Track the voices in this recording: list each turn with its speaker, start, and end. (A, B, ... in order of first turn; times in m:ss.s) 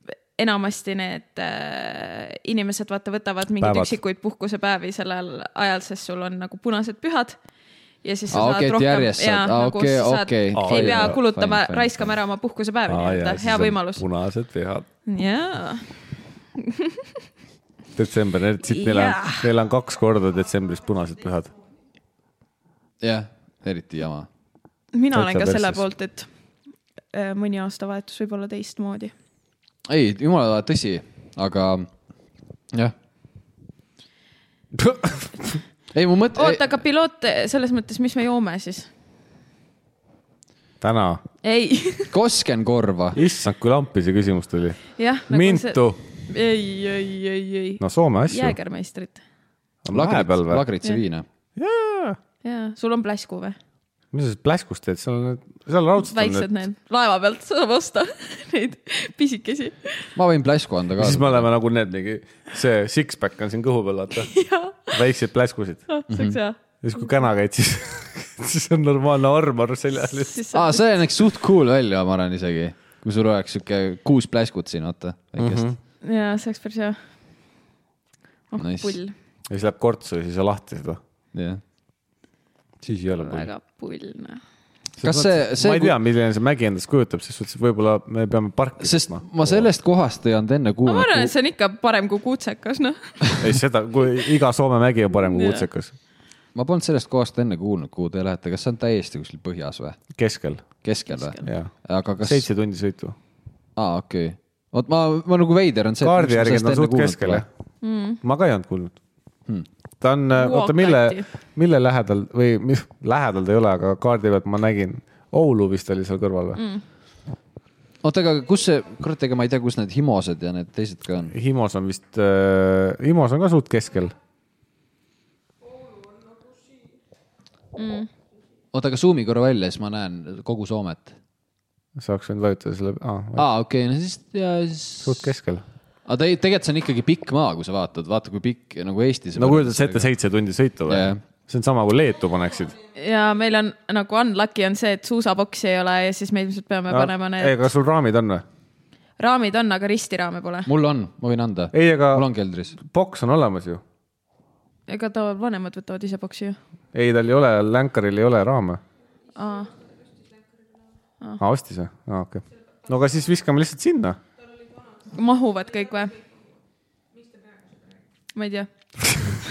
0:00.4-0:07.4 A
0:03.6-0:04.0 B
0:08.0-0:14.0 A
0:08.3-0:12.2 C
0:10.6-0:11.2 B
0:12.9-0:14.9 B
0:15.1-0:15.9 A
0:16.6-0:17.1 A
0:18.0-0:21.5 B
0:18.6-0:19.5 A
0:23.0-0:24.3 C
0:24.9-0:26.3 A
0:25.1-0:25.8 B
0:27.1-0:29.1 A
0:29.9-0:31.9 C
0:34.8-0:35.3 B
0:35.9-0:36.8 C
0:36.4-0:38.9 A
0:40.8-0:41.2 B
0:41.4-0:42.1 A
0:42.1-0:43.2 C
0:43.2-0:46.0 B
0:45.0-0:49.2 A
0:47.8-0:48.6 B
0:49.8-0:50.7 B
0:49.9-0:51.2 C
0:51.6-0:52.2 B
0:52.4-0:53.6 A
0:54.1-0:56.5 B
0:56.0-1:00.1 A
1:00.2-1:01.5 C
1:01.0-1:04.3 B
1:04.2-1:05.0 A
1:04.9-1:05.8 B
1:05.9-1:06.6 A
1:06.1-1:06.4 C
1:06.8-1:10.4 B
1:10.2-1:11.0 A
1:10.5-1:15.7 C
1:15.4-1:15.8 B
1:16.0-1:17.0 A
1:18.5-1:19.1 A
1:18.6-1:19.0 C
1:19.5-1:21.0 B
1:21.3-1:21.6 C
1:22.8-1:23.5 B
1:23.1-1:24.4 A
1:25.0-1:29.7 B
1:25.0-1:26.0 C
1:28.8-1:31.3 C
1:30.8-1:33.4 A
1:33.4-1:35.9 B
1:35.3-1:35.7 A
1:36.6-1:40.0 C
1:40.2-1:40.6 B
1:40.8-1:42.4 C
1:41.1-1:41.5 A
1:41.4-1:43.2 B
1:43.8-1:47.4 C
1:46.0-1:47.4 B
1:47.8-1:48.2 A
1:48.2-1:49.0 B
1:50.0-1:56.6 B
1:50.4-1:51.3 A
1:56.6-1:56.8 A
1:58.0-2:01.3 C
2:01.3-2:04.2 B
2:07.8-2:08.1 A
2:08.7-2:11.2 C
2:12.0-2:13.5 B
2:13.4-2:15.3 C
2:15.0-2:15.6 B
2:16.1-2:20.1 C
2:19.4-2:22.8 B
2:20.9-2:21.2 C
2:23.0-2:27.6 A
2:26.9-2:28.4 B
2:29.2-2:30.7 A
2:30.7-2:32.8 C
2:31.7-2:33.8 B
2:34.9-2:36.6 A
2:36.9-2:38.8 B
2:39.4-2:39.8 A
2:41.4-2:44.2 B
2:45.0-2:46.2 A
2:48.4-2:48.7 A